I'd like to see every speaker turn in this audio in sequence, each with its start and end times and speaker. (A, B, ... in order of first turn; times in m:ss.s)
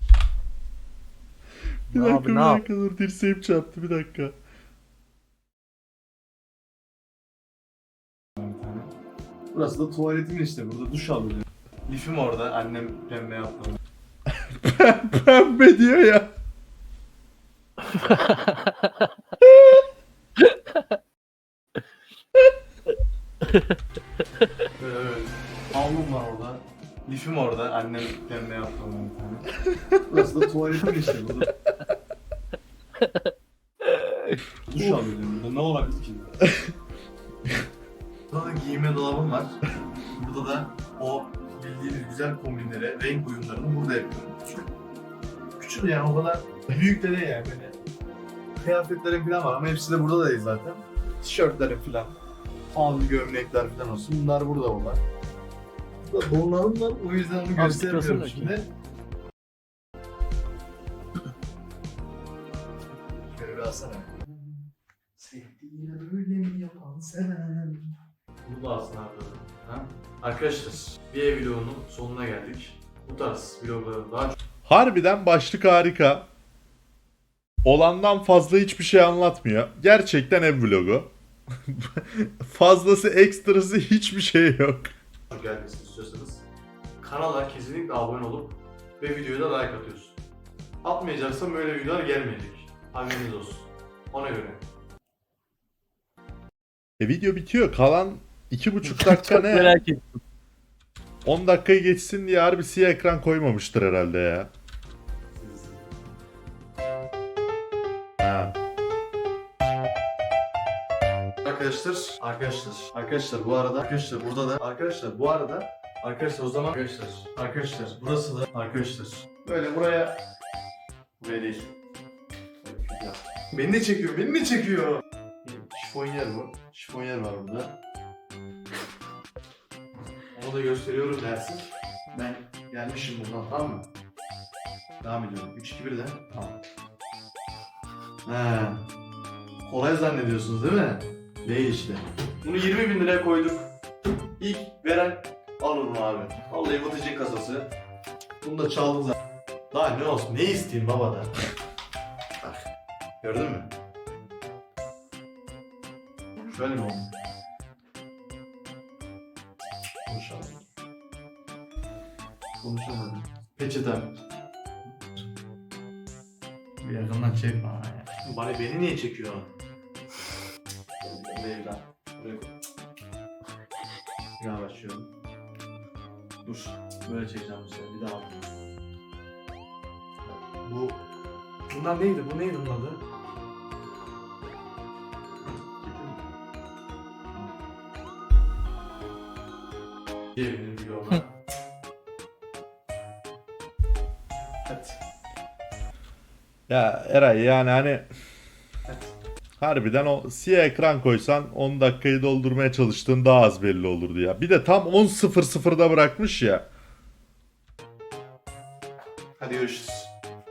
0:01.9-0:04.3 A
0:01.9-0:02.6 B
0:08.4-0:08.9 C
0:09.5-0:13.8 C
0:14.3-0:16.3 A
0:18.0-0:18.7 B
0:19.4-0:19.8 A
0:24.8-0:31.5 C
0:33.8-0:34.4 B
0:34.6-0:36.4 C
0:38.3-0:39.6 C
0:40.1-0:44.7 C
0:45.6-0:47.8 C
0:48.6-0:52.2 C
0:52.7-0:55.0 C
0:56.0-0:58.7 C
0:57.6-0:58.5 B
1:03.0-1:04.6 C
1:05.2-1:14.4 C
1:14.6-1:16.3 A
1:17.6-1:21.1 A
1:21.7-1:24.9 A
1:25.3-1:26.4 C
1:27.0-1:30.2 C
1:30.8-1:34.6 C
1:37.0-1:39.8 A
1:38.9-1:40.2 B
1:41.2-1:44.5 A
1:45.4-1:45.8 C
1:48.2-1:48.5 A
1:51.4-2:00.2 C
2:01.2-2:01.7 C
2:02.6-2:07.8 C
2:10.3-2:13.9 C
2:15.0-2:16.5 C
2:18.2-2:18.8 C
2:19.6-2:23.7 C
2:24.4-2:27.7 C
2:28.4-2:29.2 C
2:29.7-2:31.4 C
2:33.2-2:33.7 C
2:36.4-2:37.1 C
2:40.1-2:40.6 C
2:42.6-2:44.2 C
2:46.8-2:49.5 C
2:51.0-2:52.5 C
2:54.4-2:55.1 C
2:56.4-2:58.5 C
3:00.2-3:01.0 C
3:01.7-3:03.0 C
3:05.8-3:06.2 C
3:10.3-3:11.4 C
3:14.6-3:15.0 C
3:16.7-3:18.1 A
3:18.8-3:19.1 C
3:19.6-3:26.7 A
3:29.4-3:30.1 C